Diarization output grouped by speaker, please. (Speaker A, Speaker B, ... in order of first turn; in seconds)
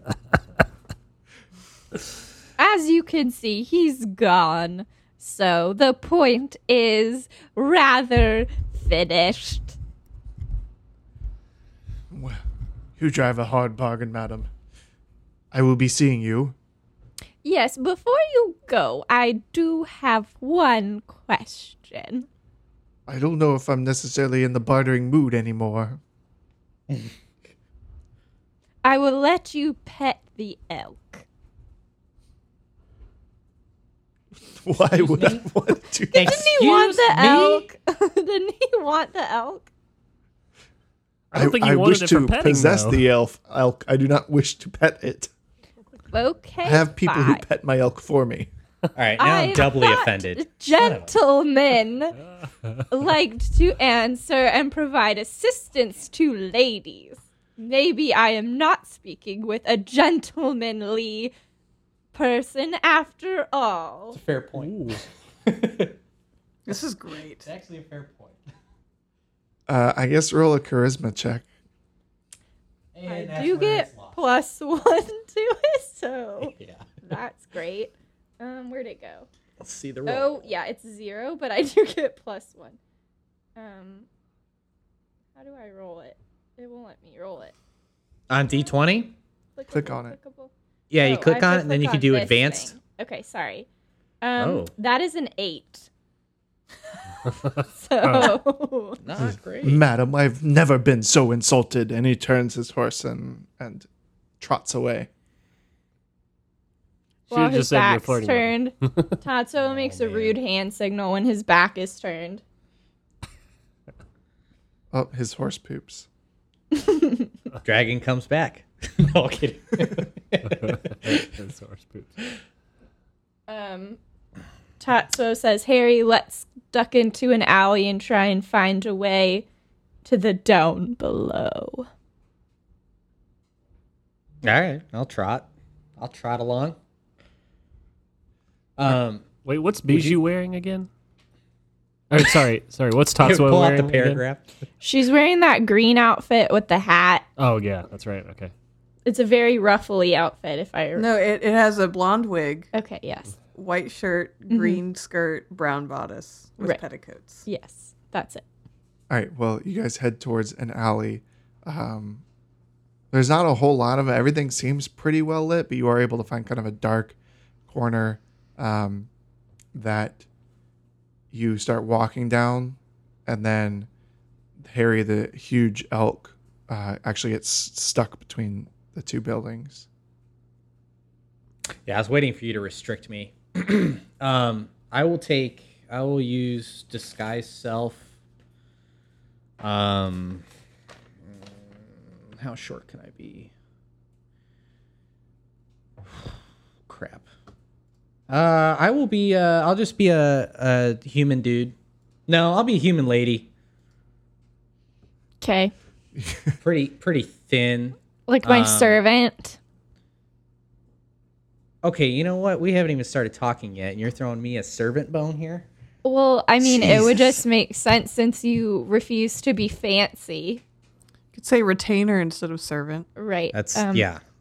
Speaker A: 2.6-9.8, 17.4-22.2, 28.8-31.2, 36.1-39.7, 46.1-47.4, 49.2-52.2, 52.9-61.3, 62.1-64.2, 73.0-79.3, 80.0-82.8, 83.5-84.0, 85.3-87.5, 89.5-93.7, 94.2-95.9, 97.6-99.0, 107.3-112.4, 116.8-117.2, 123.5-124.0, 124.8-129.4, 130.0-131.9, 144.8-147.2, 149.1-151.1, 152.7-153.3, 154.5-154.8, 157.4-158.4, 205.4-205.7, 208.3-209.6, 216.0-220.6, 223.2-224.1
Speaker B: 12.1-12.4, 13.0-14.5, 15.5-16.5, 23.1-26.0, 34.5-36.3, 41.3-45.3, 46.6-48.5, 69.7-71.5, 89.7-90.2, 99.6-103.9, 104.4-105.1, 114.9-116.0, 159.1-162.2, 163.1-167.2, 167.7-169.1, 169.7-170.2, 171.3-173.9, 174.6-179.9, 206.2-206.5
Speaker C: 35.0-35.4, 36.1-37.6, 49.0-51.1, 64.1-65.9, 67.4-68.4, 72.9-74.2, 76.5-76.8, 79.6-80.4, 88.3-89.2, 90.9-92.7, 94.4-94.7, 99.0-99.8, 109.8-110.3, 117.6-121.2, 134.4-136.8, 138.8-139.3, 139.9-140.2, 143.2-144.4, 181.8-188.0, 189.6-190.4, 192.3-193.5, 196.9-197.2, 198.3-201.7, 202.3-203.5, 206.6-209.0, 211.8-215.7, 216.6-217.3, 223.5-224.2
Speaker D: 41.3-43.0, 64.5-65.0, 98.0-98.4, 107.3-109.2, 120.4-122.2, 139.4-140.9, 142.1-144.2, 147.4-148.5
Speaker E: 66.7-67.5, 150.9-152.7, 153.5-157.4, 221.3-223.1